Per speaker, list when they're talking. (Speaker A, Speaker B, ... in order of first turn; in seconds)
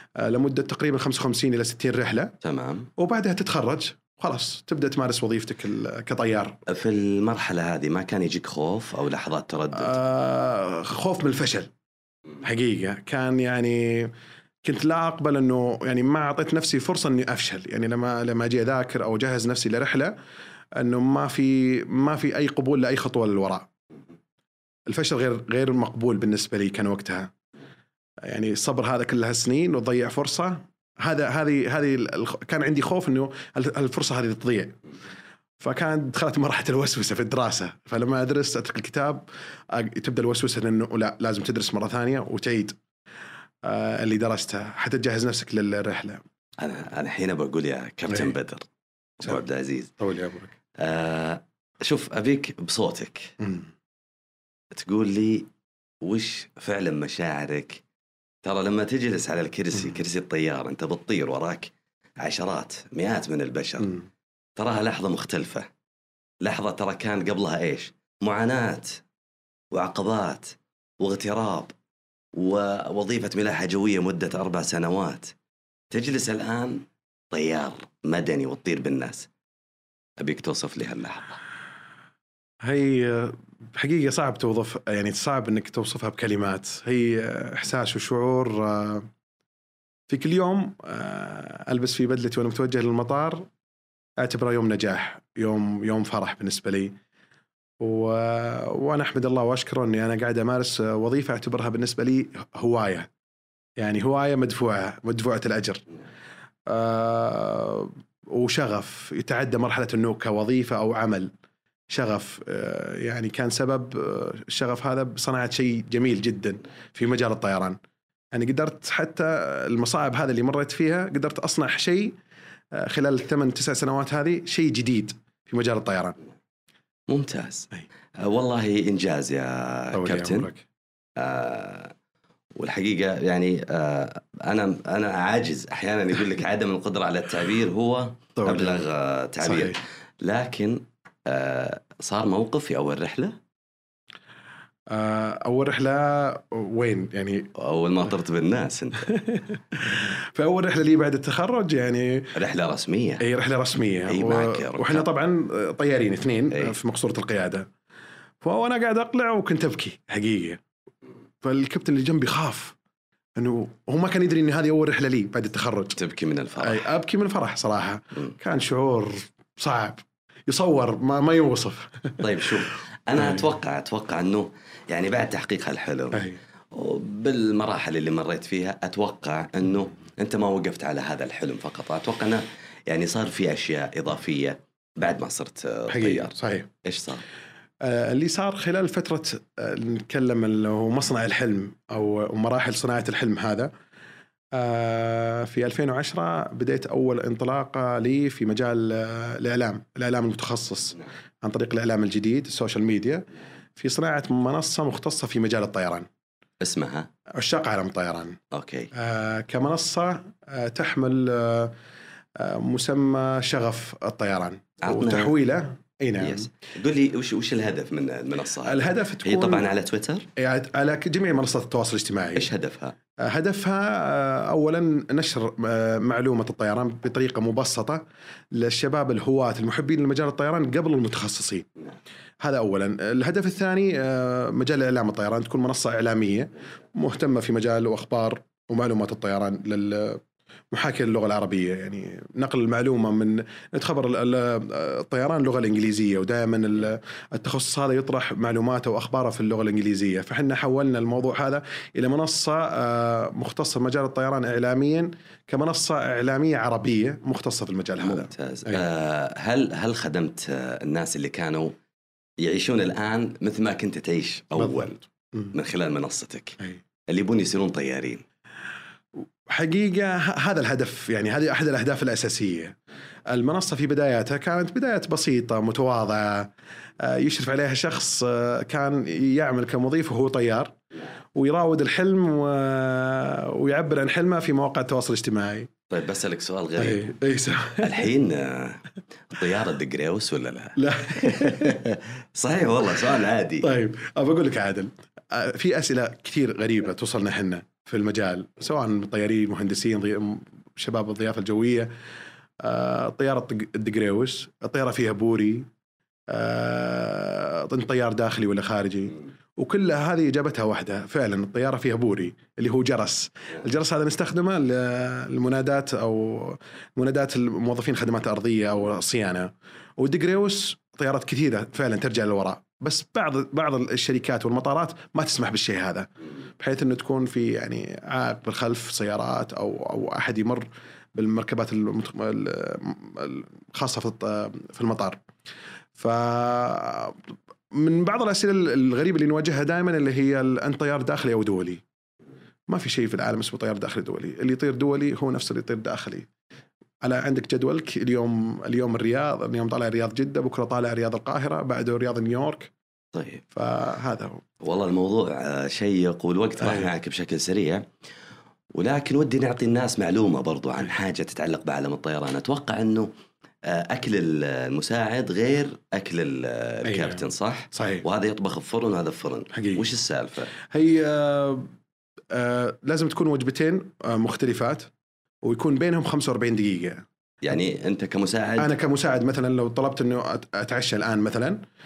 Speaker A: 0.2-2.3, 3.0-6.6, 9.7-11.7, 12.4-14.1, 14.6-20.1, 20.8-23.7, 24.9-27.3, 28.2-34.8, 35.6-42.8, 43.6-46.2, 50.0-50.5, 53.4-53.7, 82.6-89.1, 90.1-93.5, 94.2-97.0, 97.8-103.1, 103.8-105.8, 106.7-111.3, 111.9-117.8, 118.3-122.2, 122.7-126.2, 129.9-130.6, 138.4-138.8, 139.4-139.8, 144.9-147.5, 149.2-152.3, 153.2-157.7, 158.4-160.6, 161.4-162.8, 163.4-166.0, 166.6-172.2, 176.1-176.4, 185.9-186.7, 187.8-193.7, 194.5-203.2, 203.8-206.1, 207.3-208.4, 208.9-211.7, 212.4-216.5, 218.6-219.7, 220.3-222.5, 223.2-228.0, 228.5-231.7, 232.4-258.9, 264.6-265.5, 269.5-272.8, 273.3-280.8, 281.3-285.7, 286.8-288.0, 290.8-291.9, 293.6-301.9, 302.6-305.7, 306.3-335.2, 336.0-341.8, 342.7-346.3, 347.0-352.7, 353.5-354.4, 366.8-368.0, 369.5-369.8, 370.7-371.7, 372.3-374.9, 375.4-377.0, 378.6-381.6
Speaker B: 2.4-2.9, 6.7-10.0, 46.6-48.7, 49.2-49.9, 50.8-53.3, 54.7-55.5, 56.0-57.8, 58.4-64.0, 64.6-65.7, 66.4-69.0, 69.7-71.7, 72.3-75.3, 75.9-79.3, 80.2-81.4, 127.1-130.5, 131.2-131.9, 132.6-143.4, 147.5-149.2, 152.3-153.2, 154.1-155.1, 165.9-166.8, 172.2-187.2, 206.6-207.1, 208.5-208.9, 214.8-215.3, 216.2-220.3, 222.3-222.9, 258.0-261.7, 262.4-264.9, 265.5-268.2, 285.9-287.1, 287.8-293.7, 353.1-353.4, 354.6-357.9, 358.7-363.1, 363.6-370.5, 377.4-378.7